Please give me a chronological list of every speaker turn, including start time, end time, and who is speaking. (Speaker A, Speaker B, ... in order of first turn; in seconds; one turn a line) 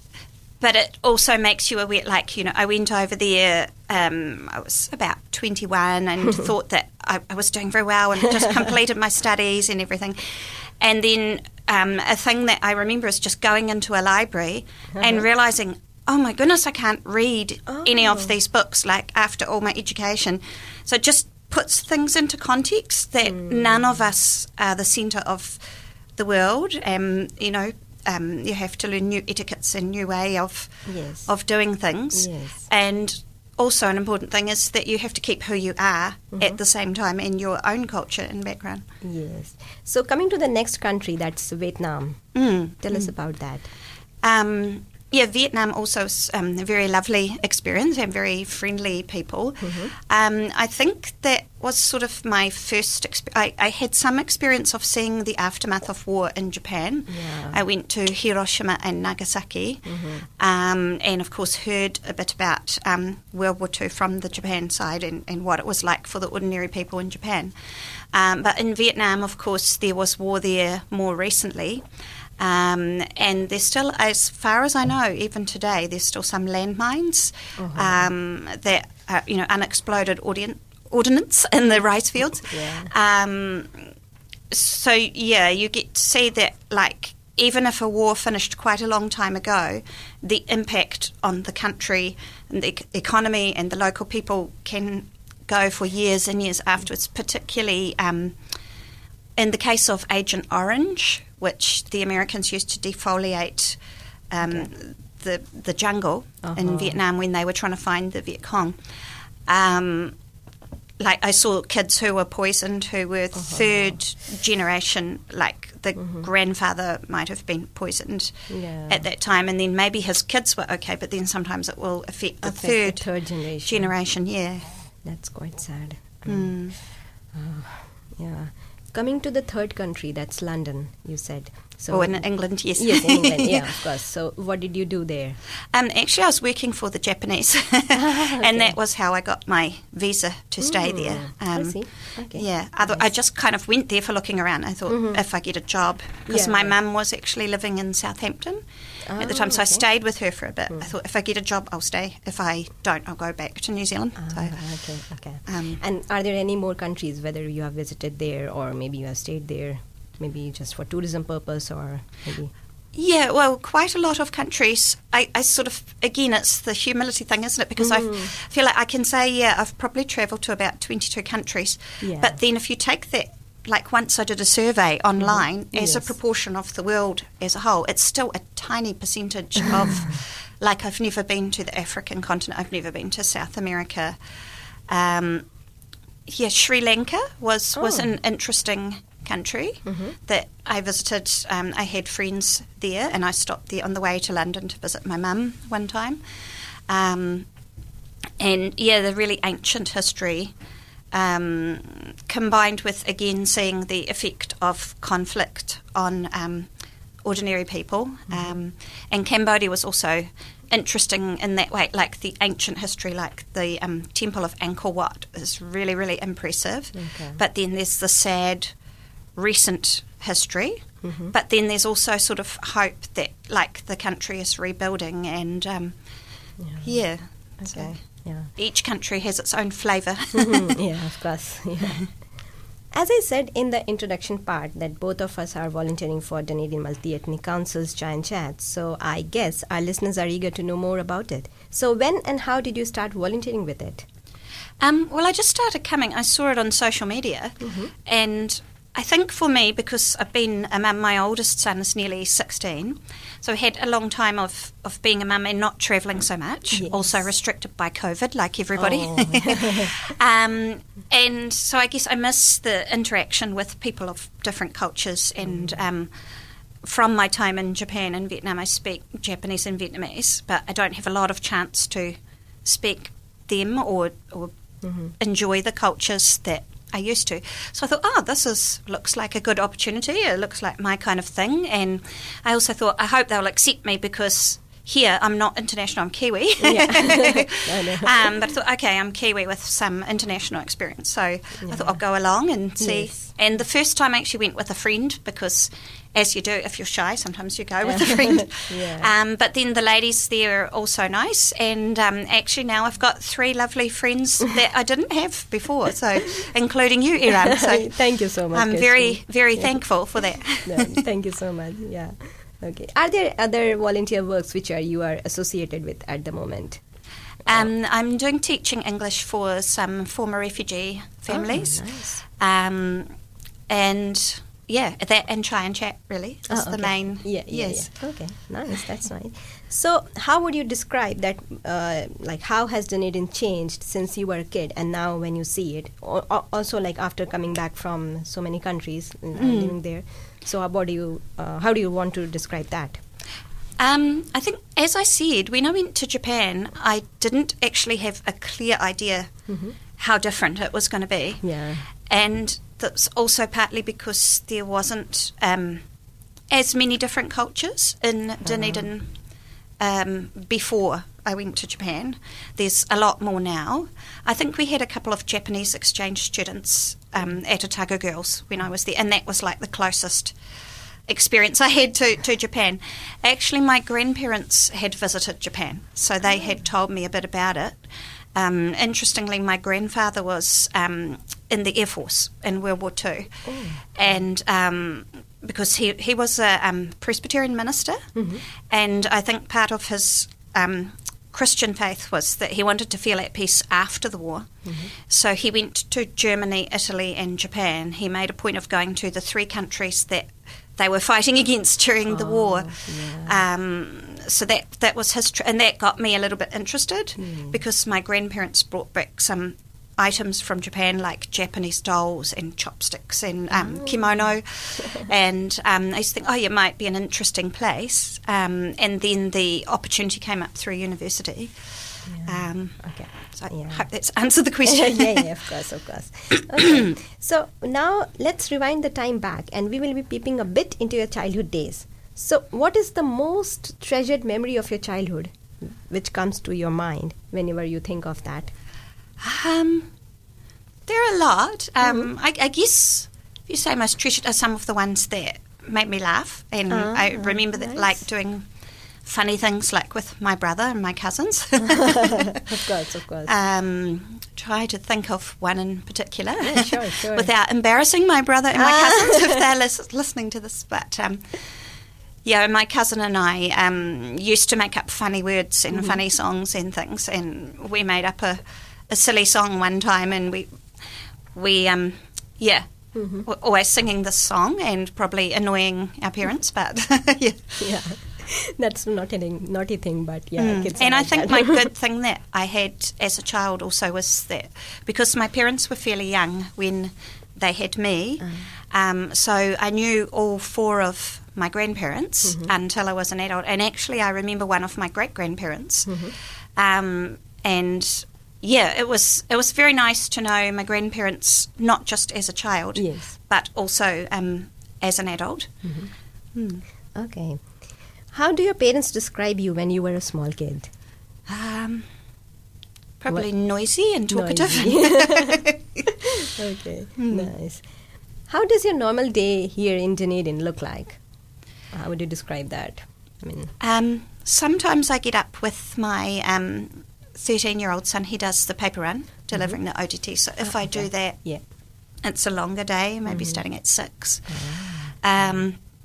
Speaker A: 0.6-25.6
Speaker B: 14.9-15.2
Speaker B: 17.7-18.3
Speaker B: 23.3-23.6
Speaker A: 26.2-38.8
Speaker B: 30.9-31.3
Speaker B: 32.1-32.7
Speaker B: 36.3-36.6
Speaker B: 39.0-42.2
Speaker A: 42.3-43.1
Speaker B: 42.8-43.7
Speaker A: 44.2-67.5
Speaker B: 49.6-49.9
Speaker B: 57.1-57.6
Speaker B: 59.9-60.3
Speaker A: 68.1-71.8
Speaker A: 72.4-83.9
Speaker B: 77.6-78.0
Speaker B: 82.4-82.9
Speaker A: 84.5-98.4
Speaker A: 99.3-103.8
Speaker A: 104.3-108.8
Speaker B: 106.4-107.0
Speaker A: 109.5-110.2
Speaker A: 111.0-123.1
Speaker B: 113.3-114.0
Speaker B: 116.0-116.3
Speaker B: 118.5-119.1
Speaker B: 122.4-123.9
Speaker A: 123.6-124.7
Speaker B: 125.0-126.6
Speaker A: 126.2-126.8
Speaker B: 127.3-135.4
Speaker A: 131.9-133.6
Speaker A: 135.7-148.6
Speaker B: 137.9-138.7
Speaker B: 140.6-143.1
Speaker B: 144.9-145.2
Speaker B: 146.3-146.8
Speaker B: 149.0-149.8
Speaker A: 149.2-154.6
Speaker B: 154.2-162.5
Speaker A: 155.4-155.8
Speaker A: 162.9-184.2
Speaker B: 167.8-168.3
Speaker B: 172.0-172.4
Speaker B: 175.2-176.1
Speaker A: 184.9-185.5
Speaker A: 186.2-196.2
Speaker B: 187.8-188.1
Speaker B: 189.8-190.2
Speaker A: 196.9-197.5
Speaker A: 198.4-200.5
Speaker A: 201.1-206.7
Speaker A: 207.2-218.7
Speaker B: 216.9-217.4
Speaker A: 219.3-226.0
Speaker B: 221.0-221.3
Speaker B: 226.6-227.0
Speaker A: 226.8-227.9
Speaker B: 227.6-228.5
Speaker A: 228.5-230.8
Speaker B: 230.3-232.2
Speaker B: 232.9-244.1
Speaker A: 244.8-266.1
Speaker B: 247.6-247.9
Speaker B: 256.7-257.0
Speaker B: 258.8-259.9
Speaker A: 266.8-274.5
Speaker B: 274.8-275.1
Speaker A: 275.2-308.0
Speaker B: 286.6-288.3
Speaker B: 291.6-292.0
Speaker B: 292.8-293.3
Speaker B: 297.8-299.1
Speaker B: 307.4-309.8
Speaker A: 308.5-311.0
Speaker B: 310.6-316.8
Speaker A: 317.4-323.1
Speaker B: 321.3-322.2
Speaker A: 323.7-327.9
Speaker B: 326.5-343.0
Speaker A: 339.3-339.7
Speaker A: 343.8-355.9
Speaker B: 349.5-349.8
Speaker B: 351.4-351.9
Speaker A: 356.5-359.1
Speaker B: 358.4-358.9
Speaker A: 359.8-370.3
Speaker A: 371.1-377.8
Speaker A: 378.3-383.4
Speaker B: 383.4-383.9
Speaker A: 383.9-425.3
Speaker B: 388.1-388.4
Speaker B: 394.6-394.9
Speaker B: 402.1-403.4
Speaker B: 407.2-407.6
Speaker B: 413.5-414.0
Speaker B: 422.1-423.9
Speaker B: 424.6-438.5
Speaker A: 439.2-439.9
Speaker A: 440.9-448.5
Speaker B: 446.7-448.0
Speaker A: 449.0-452.3
Speaker B: 451.7-453.3
Speaker A: 453.3-461.4
Speaker B: 456.4-457.3
Speaker B: 458.6-459.4
Speaker A: 462.2-470.5
Speaker A: 471.3-477.5
Speaker B: 472.9-473.2
Speaker B: 477.6-481.7
Speaker A: 480.4-496.0
Speaker B: 488.2-488.5
Speaker B: 492.2-492.5
Speaker B: 495.9-496.1
Speaker A: 496.6-505.6
Speaker B: 502.8-503.1
Speaker B: 505.6-505.9
Speaker A: 506.3-506.6
Speaker B: 506.9-507.4
Speaker B: 508.1-510.7
Speaker A: 511.3-511.9
Speaker A: 513.0-515.6
Speaker B: 514.1-517.6
Speaker A: 517.0-517.3
Speaker B: 518.3-521.0
Speaker B: 521.7-523.5
Speaker A: 523.6-531.2
Speaker B: 529.3-529.6
Speaker B: 530.6-531.4
Speaker A: 532.0-535.6
Speaker B: 533.1-533.4
Speaker B: 534.3-535.4